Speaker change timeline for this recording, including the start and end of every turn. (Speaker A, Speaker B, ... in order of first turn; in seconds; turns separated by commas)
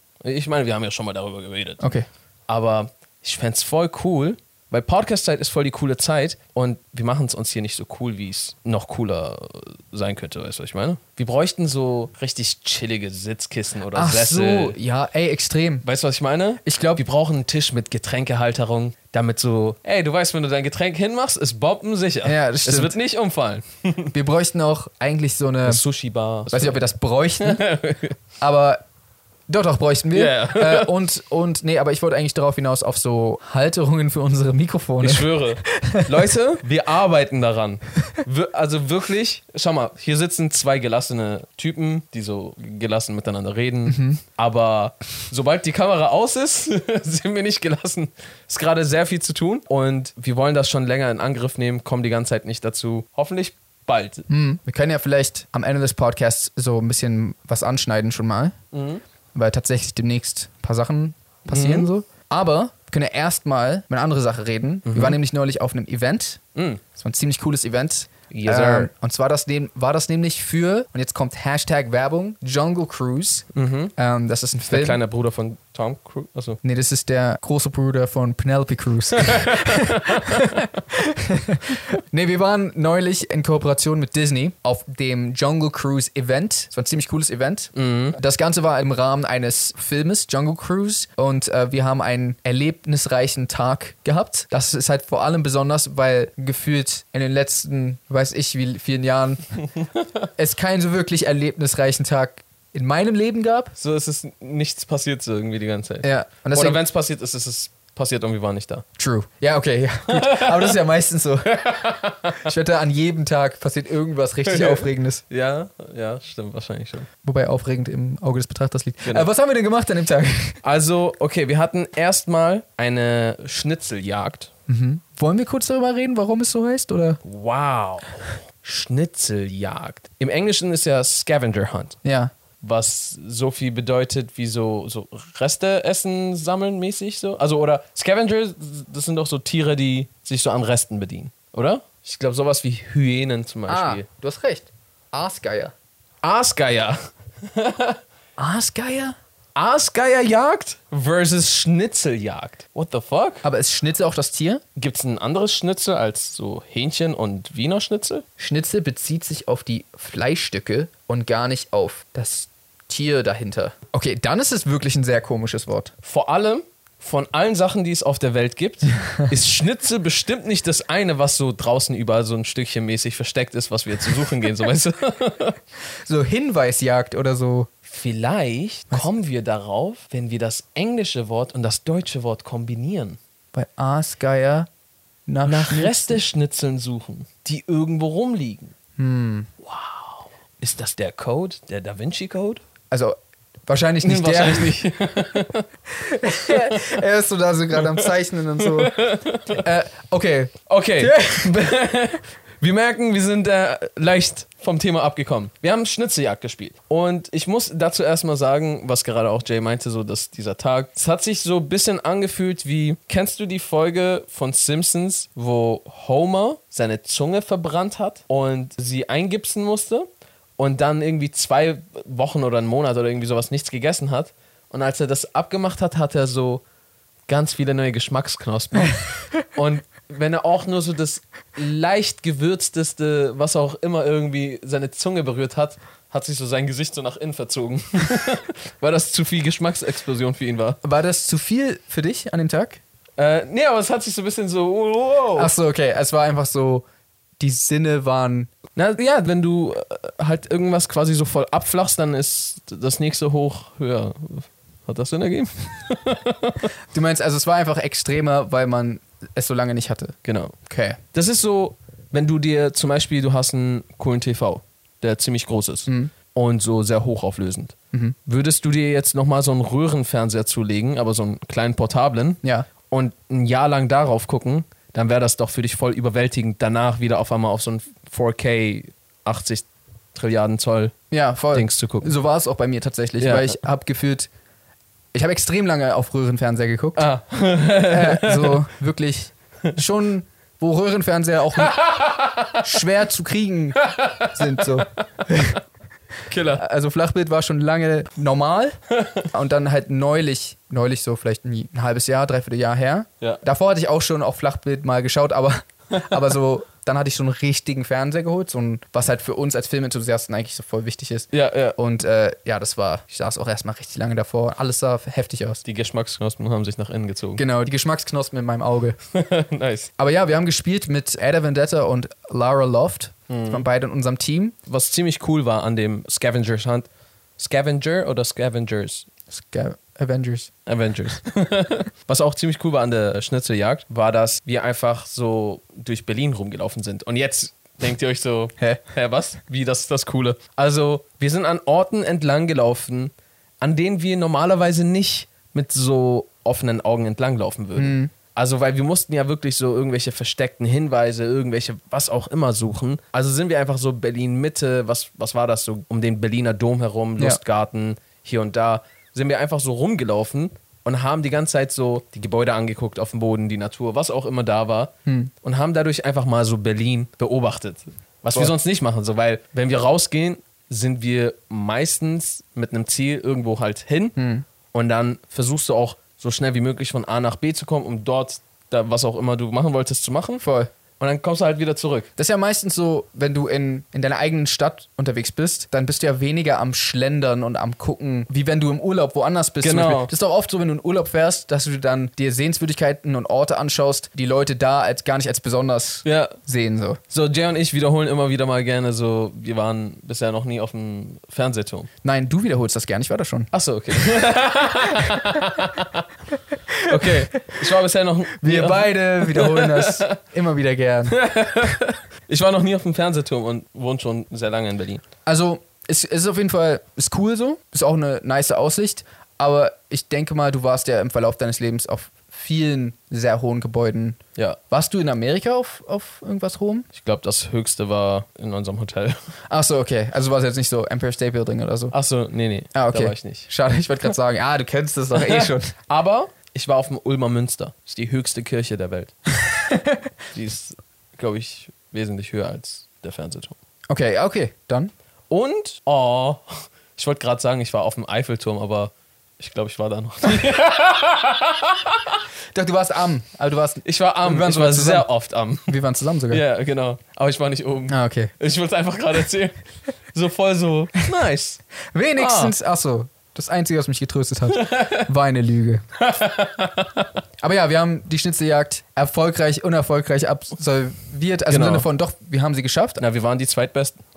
Speaker A: 0.2-1.9, Speaker B: 1.8-2.1, Speaker A: 2.5-14.8, Speaker B: 13.9-15.8, Speaker A: 15.8-24.1, Speaker B: 16.6-17.1, Speaker B: 22.2-22.9, Speaker B: 24.1-25.8, Speaker A: 25.6-26.8, Speaker B: 26.5-27.6, Speaker A: 27.4-28.2, Speaker B: 28.4-28.8, Speaker B: 29.5-36.3, Speaker A: 30.1-30.9, Speaker A: 35.0-54.3, Speaker B: 43.9-44.2, Speaker B: 54.3-58.6, Speaker A: 58.7-59.0, Speaker B: 59.3-66.4, Speaker A: 61.5-61.9, Speaker A: 64.9-65.2, Speaker A: 66.5-66.8, Speaker B: 66.9-75.0, Speaker A: 68.3-68.9, Speaker A: 73.5-73.9, Speaker A: 74.7-76.6, Speaker B: 76.6-99.5, Speaker A: 79.2-80.7, Speaker A: 87.7-88.2, Speaker A: 99.8-100.0, Speaker B: 100.4-103.7, Speaker A: 103.8-108.8, Speaker B: 106.0-106.8, Speaker B: 109.0-111.5, Speaker A: 110.1-110.8, Speaker A: 111.5-112.5, Speaker B: 112.4-115.2, Speaker A: 114.5-117.1, Speaker B: 117.2-120.6, Speaker A: 120.6-124.5, Speaker B: 124.7-127.2, Speaker A: 127.2-132.0, Speaker B: 132.0-132.3, Speaker A: 132.6-144.1, Speaker B: 143.7-145.7, Speaker A: 146.2-148.0, Speaker B: 148.4-149.2, Speaker A: 149.6-153.5, Speaker B: 153.4-154.6, Speaker A: 154.8-158.2, Speaker B: 158.4-165.9, Speaker A: 166.0-175.6, Speaker B: 176.1-177.7, Speaker A: 177.8-183.2, Speaker B: 183.5-184.7, Speaker B: 185.3-186.2, Speaker A: 185.5-188.7, Speaker B: 189.0-189.5, Speaker A: 189.6-192.6, Speaker B: 192.9-193.2, Speaker B: 193.7-194.8, Speaker A: 194.0-195.7, Speaker B: 195.9-198.9, Speaker A: 196.5-197.0, Speaker A: 197.8-199.6, Speaker B: 199.6-201.6, Speaker A: 200.7-220.1, Speaker A: 220.6-226.6, Speaker A: 227.3-240.8, Speaker B: 240.8-242.8, Speaker A: 243.2-245.5, Speaker B: 245.4-246.9, Speaker B: 247.4-248.5, Speaker A: 248.8-256.7, Speaker B: 256.9-261.0, Speaker A: 260.2-260.5, Speaker A: 261.1-267.8, Speaker B: 265.9-266.1, Speaker A: 268.3-280.9, Speaker B: 272.4-272.7, Speaker B: 281.1-284.3, Speaker A: 281.5-282.1, Speaker A: 283.2-283.6, Speaker B: 285.1-287.1, Speaker A: 287.0-288.6, Speaker B: 287.9-291.8, Speaker A: 291.6-292.7, Speaker B: 292.6-295.6, Speaker A: 293.8-294.7, Speaker A: 296.3-296.6, Speaker B: 296.6-298.8, Speaker A: 298.9-299.2, Speaker B: 299.3-315.6, Speaker A: 311.3-311.8, Speaker A: 315.6-317.4, Speaker B: 317.4-319.0, Speaker A: 319.1-319.9, Speaker B: 320.0-324.6, Speaker A: 323.3-323.6, Speaker A: 324.7-329.1, Speaker B: 329.3-330.5, Speaker A: 330.7-374.2, Speaker B: 347.8-348.1, Speaker B: 365.1-365.3, Speaker B: 374.2-374.5, Speaker A: 374.7-380.4, Speaker B: 380.4-380.7, Speaker A: 381.0-382.1, Speaker B: 382.2-397.0, Speaker A: 389.6-390.1, Speaker A: 396.1-396.4, Speaker A: 397.1-401.9, Speaker B: 402.0-404.0, Speaker A: 403.5-406.1, Speaker B: 406.7-407.6, Speaker A: 406.8-410.2, Speaker B: 408.4-411.2, Speaker A: 411.1-415.0, Speaker B: 415.3-424.2, Speaker B: 424.7-426.9, Speaker A: 426.9-429.2, Speaker B: 429.5-431.9, Speaker A: 431.9-433.5, Speaker B: 432.7-435.7, Speaker A: 435.1-439.1, Speaker B: 439.7-440.0, Speaker A: 440.3-443.6, Speaker B: 443.9-444.9, Speaker A: 445.3-452.2, Speaker B: 452.5-455.1, Speaker A: 453.8-455.7, Speaker B: 455.7-456.4, Speaker A: 456.3-459.6, Speaker B: 457.9-458.3, Speaker A: 460.1-461.6, Speaker B: 461.9-465.8, Speaker A: 462.2-462.5, Speaker A: 464.5-465.1, Speaker A: 466.0-467.1, Speaker B: 467.4-473.0, Speaker A: 471.5-471.9, Speaker A: 473.0-474.0